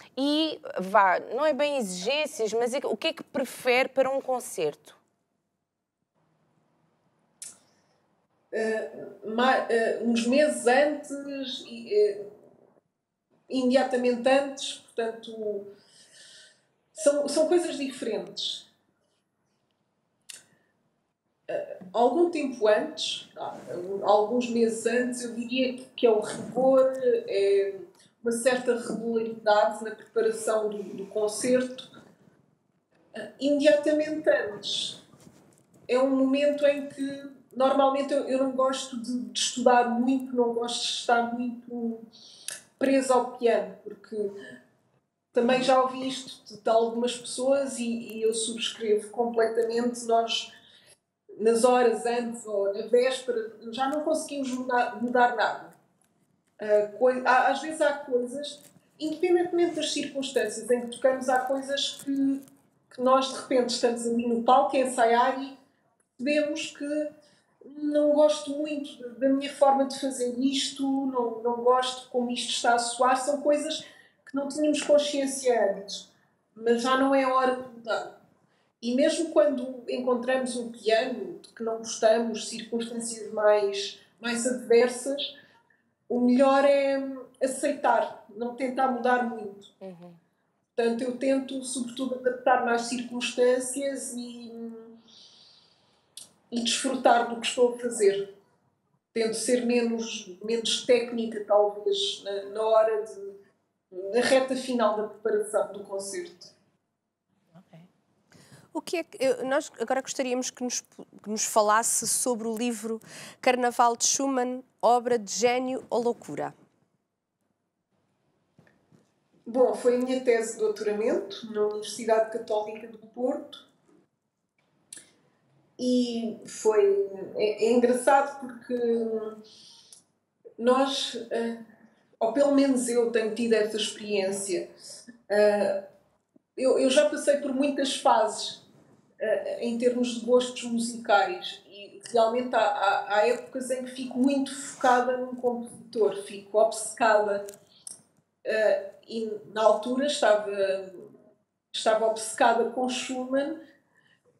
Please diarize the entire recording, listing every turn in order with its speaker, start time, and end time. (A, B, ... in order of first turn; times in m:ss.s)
0:00.2-0:05.0 A
0:08.5-0:12.3 B
0:13.5-0:15.7 B
0:16.9-0:18.7 B
0:21.5-0:31.9 B
0:33.2-0:35.0 B
0:35.9-0:42.0 B
0:42.8-0:44.3 B
0:45.3-0:50.5 B
0:51.4-0:55.8 B
0:56.6-1:05.5 B
1:06.2-1:07.1 B
1:07.6-1:18.1 B
1:18.8-1:25.3 B
1:26.1-1:29.7 B
1:29.8-1:30.2 A
1:30.8-1:35.0 B
1:36.5-1:38.2 B
1:39.1-1:43.3 B
1:43.9-1:46.5 B
1:47.5-1:47.9 A
1:48.7-1:56.5 C
1:59.4-2:03.6 B
2:05.8-2:09.4 B
2:10.6-2:11.6 B
2:12.2-2:14.7 B
2:15.3-2:15.8 B
2:16.6-2:18.6 B
2:19.2-2:27.4 B
2:28.4-2:31.1 B
2:31.7-2:33.6 B